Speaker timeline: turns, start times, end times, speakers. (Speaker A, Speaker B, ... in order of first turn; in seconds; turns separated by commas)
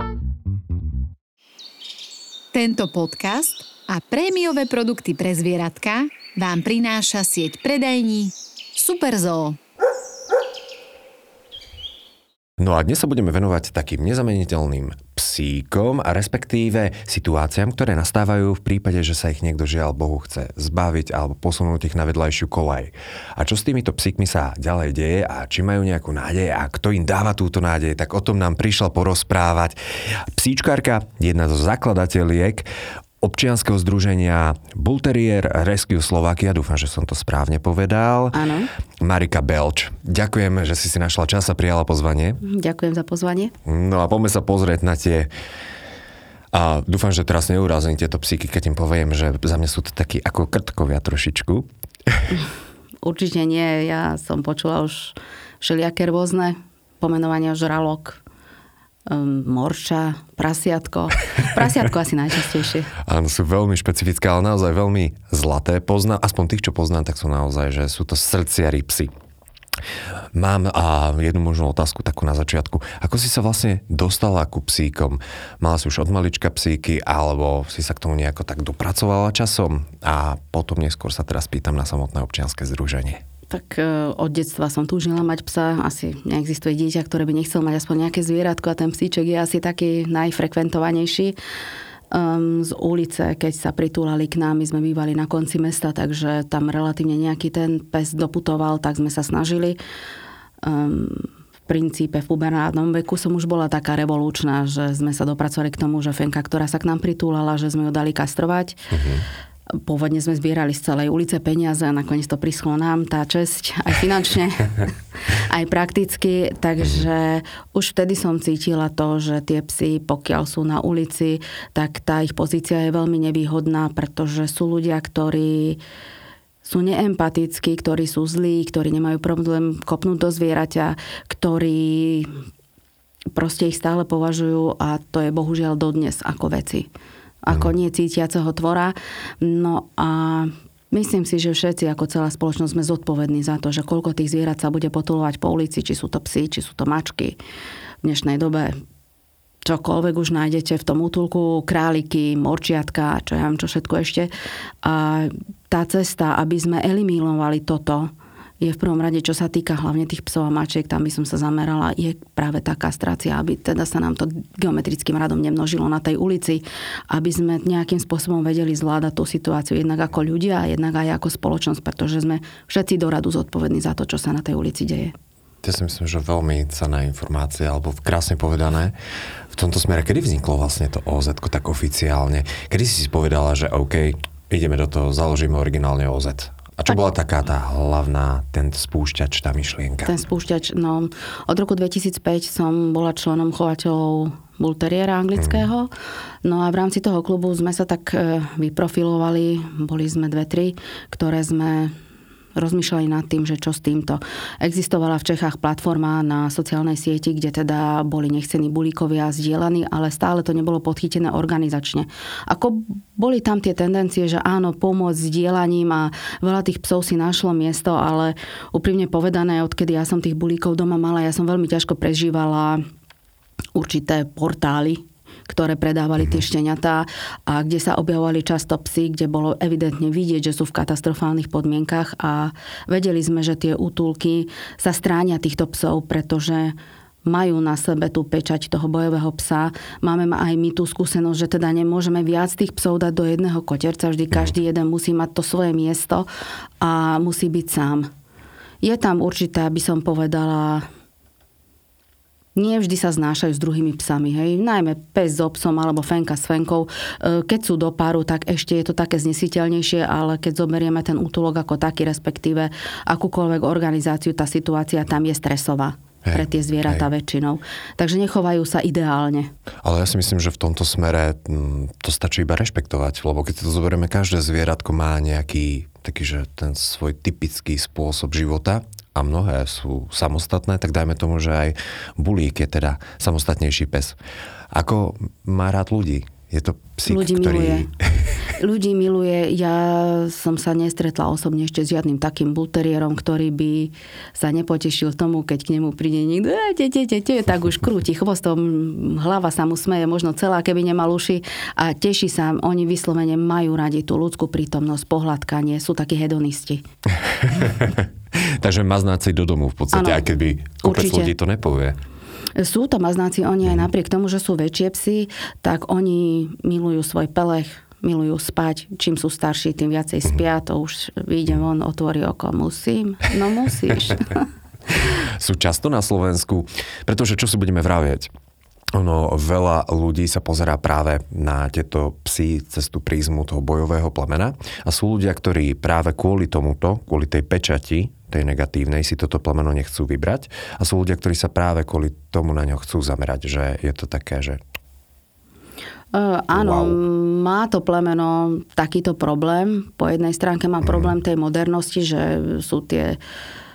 Speaker A: 2.5-9.6, Speaker B: 12.6-32.7, Speaker B: 33.2-38.4, Speaker C: 38.3-38.7, Speaker B: 39.0-42.4, Speaker C: 42.4-43.5, Speaker B: 43.6-45.3, Speaker B: 46.5-52.3, Speaker C: 53.0-58.2, Speaker C: 59.1-62.9, Speaker B: 63.0-69.1, Speaker B: 70.3-83.2, Speaker C: 83.5-91.4, Speaker C: 92.1-99.8, Speaker C: 100.6-108.8, Speaker B: 108.9-109.2, Speaker C: 109.7-125.8, Speaker C: 126.6-132.3, Speaker C: 133.3-136.9, Speaker C: 137.4-147.4, Speaker C: 148.0-148.7, Speaker C: 149.6-154.3, Speaker C: 154.8-175.1, Speaker B: 175.6-178.9, Speaker B: 179.5-190.1, Speaker C: 190.0-195.9, Speaker C: 196.4-201.9, Speaker C: 202.5-222.8, Speaker C: 223.7-236.7, Speaker C: 237.3-246.3, Speaker C: 246.8-248.1, Speaker C: 248.8-250.8, Speaker C: 252.5-269.5, Speaker B: 266.2-267.0, Speaker B: 269.8-284.1, Speaker B: 284.7-288.3, Speaker C: 287.1-287.9, Speaker C: 288.5-306.8, Speaker B: 307.2-312.0, Speaker C: 309.9-310.3, Speaker C: 310.8-311.3, Speaker C: 312.6-324.4, Speaker B: 324.9-328.3, Speaker B: 328.9-344.6, Speaker C: 346.1-353.2, Speaker B: 346.5-347.0